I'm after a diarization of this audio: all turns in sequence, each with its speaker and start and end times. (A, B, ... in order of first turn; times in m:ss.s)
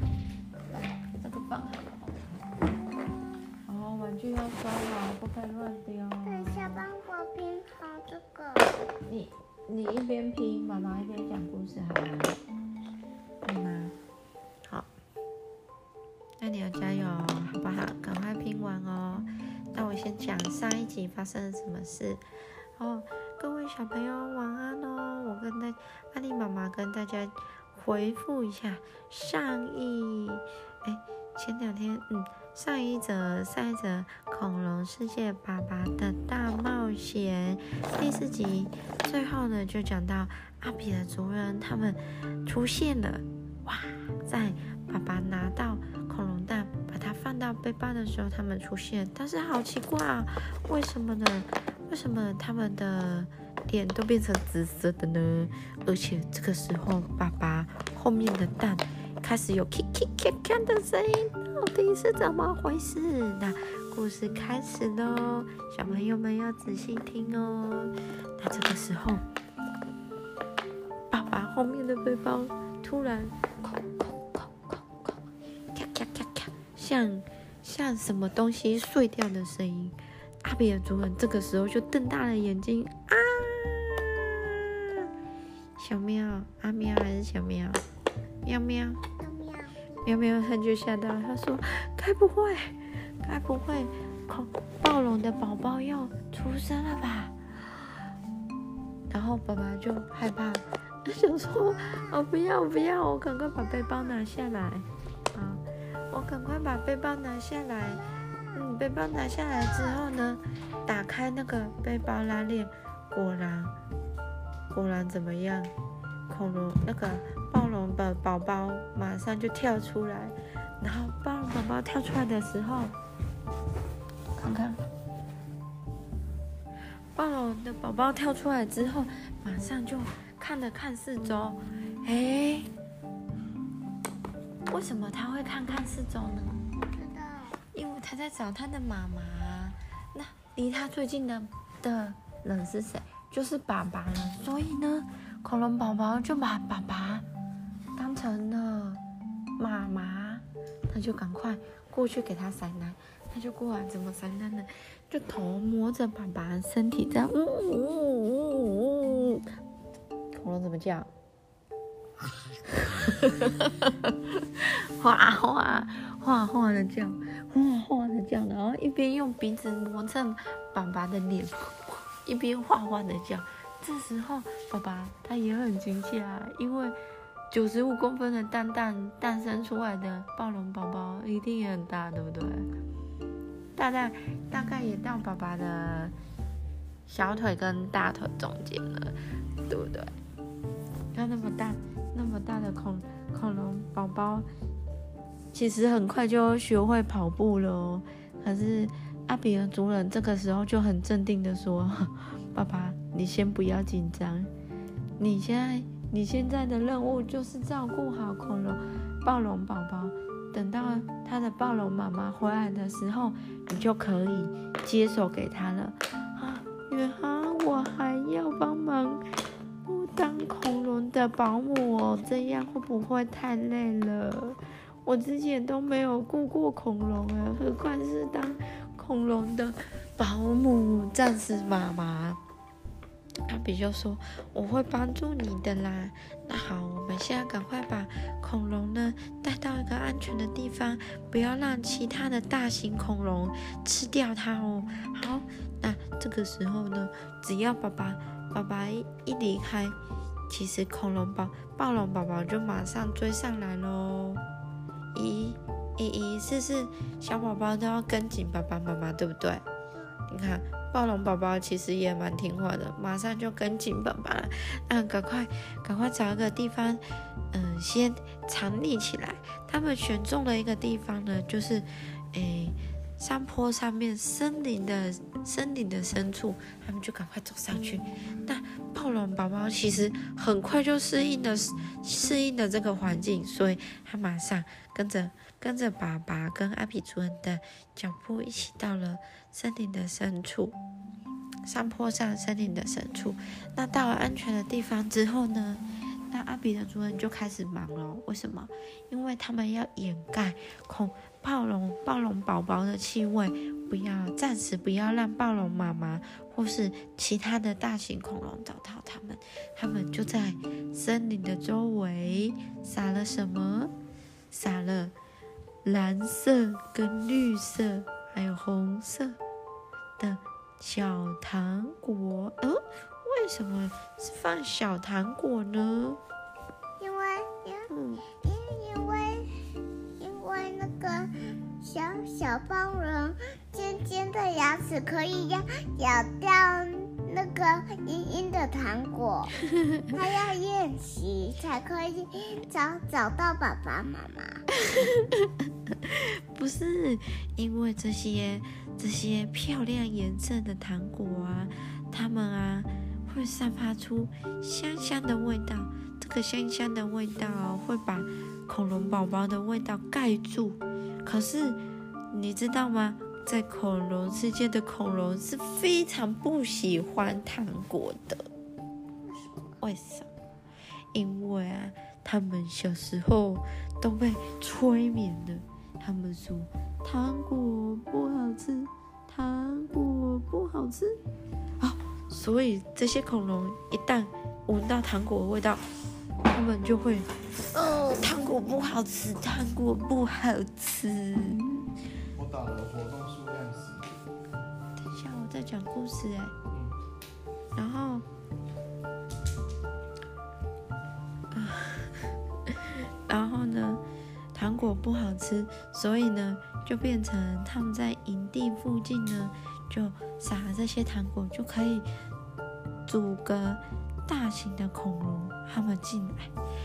0:01.1-0:02.2 A
0:03.7-0:06.8 A
0:06.2-0:08.7 B
0:09.0-0:12.4 A
0:13.4-0:13.9 A
0:16.4-0:22.2 A
0:22.8-1:09.2 A
1:11.1-1:13.3 A
1:14.4-1:14.9 A
1:15.7-1:25.0 A
1:25.8-1:27.8 A
1:28.4-1:29.0 A
1:29.2-1:30.0 B
1:30.0-1:37.4 A
1:39.1-1:53.7 A
1:41.5-1:42.2 B
1:43.8-1:44.2 B
1:47.8-1:48.6 B
1:49.5-1:50.0 B
1:54.7-1:55.7 A
1:56.3-2:02.9 A
2:04.4-2:04.8 A
2:07.1-2:12.7 A
2:14.7-2:16.6 A
2:16.9-2:17.6 B
2:17.7-2:27.2 A
2:28.0-2:29.0 A
2:29.6-2:39.4 A
2:40.3-2:41.1 A
2:42.7-2:57.0 A
2:57.5-3:02.7 A
3:03.7-3:06.1 A
3:07.1-3:09.1 A
3:09.6-3:10.1 A
3:11.1-3:14.4 A
3:15.5-3:24.5 A
3:25.2-3:39.2 A
3:39.8-3:52.4 A
3:53.5-4:09.9 A
4:10.5-4:14.4 A
4:15.1-4:19.6 A
4:20.3-4:27.0 A
4:27.5-4:50.8 A
4:51.6-5:13.9 A
5:14.5-5:15.1 A
5:15.8-5:19.4 A
5:20.2-5:26.2 A
5:27.0-5:27.9 B
5:27.9-5:28.2 A
5:28.4-5:29.5 B
5:30.2-5:39.5 B
5:40.1-5:44.6 B
5:44.8-6:01.8 A
6:02.3-6:08.5 A
6:09.2-6:09.8 B
6:09.8-6:10.3 A
6:11.1-6:21.2 A
6:21.8-6:25.8 A
6:26.5-6:31.7 A
6:32.3-6:34.1 C
6:35.0-6:36.5 A
6:36.7-6:36.9 C
6:37.7-6:38.2 A
6:41.5-6:42.2 A
6:43.2-6:44.0 A
6:44.5-6:52.0 A
6:53.1-6:56.5 A